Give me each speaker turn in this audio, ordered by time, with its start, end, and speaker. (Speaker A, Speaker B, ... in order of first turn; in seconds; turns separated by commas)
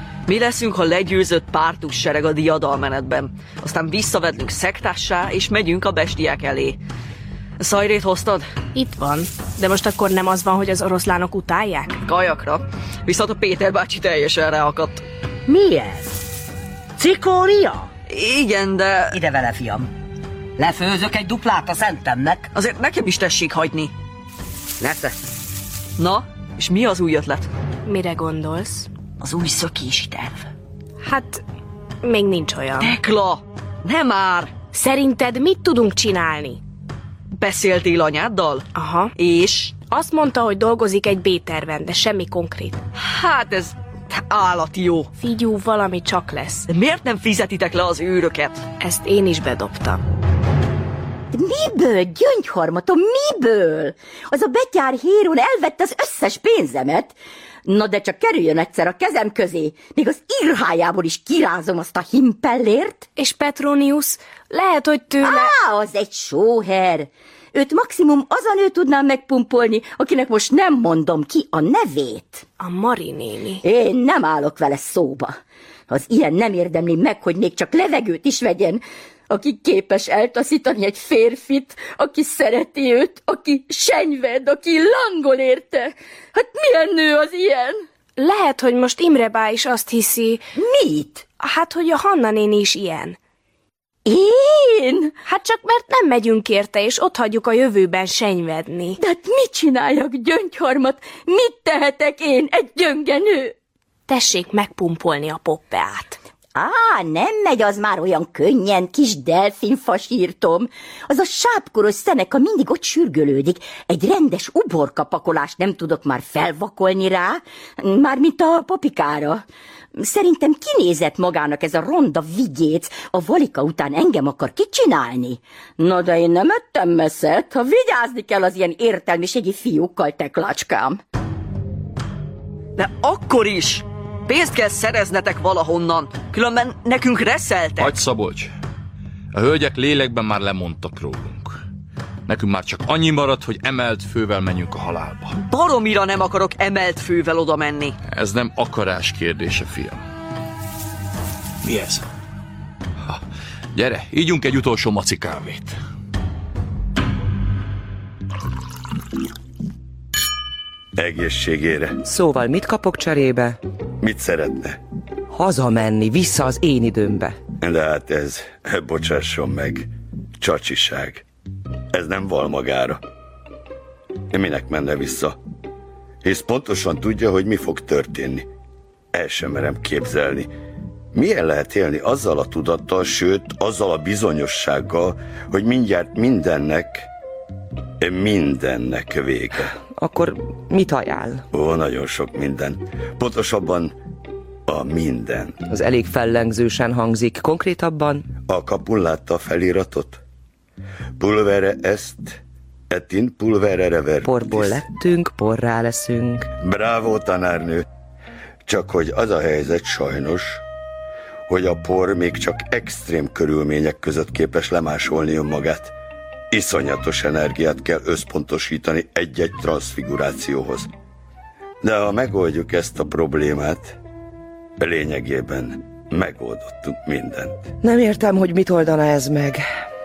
Speaker A: 0.3-6.8, Speaker A: 7.6-8.5, Speaker B: 8.7-12.0, Speaker A: 12.0-15.0, Speaker C: 15.5-16.2, Speaker C: 17.0-17.9, Speaker A: 18.1-19.2, Speaker C: 19.1-19.9, Speaker C: 20.6-22.5, Speaker A: 22.5-23.9, Speaker C: 24.8-25.1, Speaker A: 26.0-27.5, Speaker B: 27.9-28.9, Speaker A: 29.4-30.4, Speaker B: 31.0-31.4, Speaker B: 32.0-32.9, Speaker A: 32.8-34.5, Speaker B: 34.7-36.6, Speaker A: 37.4-39.7, Speaker B: 38.7-39.1, Speaker B: 39.8-42.8, Speaker A: 43.0-45.1, Speaker B: 45.1-46.7, Speaker A: 46.7-48.6, Speaker B: 48.8-50.0, Speaker D: 51.3-63.0, Speaker B: 63.2-65.5, Speaker D: 65.2-72.4, Speaker B: 72.6-73.6, Speaker D: 73.6-75.4, Speaker D: 75.9-87.8, Speaker B: 88.2-90.4, Speaker D: 90.5-91.2, Speaker B: 91.4-93.2, Speaker D: 94.1-95.1, Speaker B: 95.2-99.0, Speaker D: 99.0-103.5, Speaker B: 104.1-106.2, Speaker D: 106.5-119.4, Speaker D: 120.0-131.0, Speaker A: 132.8-137.9, Speaker E: 137.8-138.5, Speaker E: 139.3-141.5, Speaker E: 142.3-145.3, Speaker A: 145.4-147.9, Speaker E: 148.1-150.0, Speaker E: 151.7-152.0, Speaker E: 153.8-155.7, Speaker F: 160.9-162.0, Speaker G: 162.0-163.6, Speaker F: 164.0-164.8, Speaker G: 165.3-167.4, Speaker F: 167.6-171.2, Speaker F: 171.9-173.0, Speaker F: 174.3-175.4, Speaker F: 176.2-178.5, Speaker F: 179.1-180.5, Speaker F: 181.1-187.1, Speaker F: 188.0-189.8, Speaker G: 189.8-191.4, Speaker F: 191.5-193.9, Speaker F: 194.7-195.6, Speaker G: 195.7-198.3, Speaker F: 198.5-200.2, Speaker F: 201.2-202.4, Speaker F: 202.9-204.8, Speaker G: 204.2-206.5, Speaker F: 206.6-207.8, Speaker F: 208.7-210.6, Speaker F: 211.5-215.9, Speaker F: 216.5-220.9, Speaker F: 221.8-223.9, Speaker F: 224.8-227.7, Speaker G: 227.8-229.6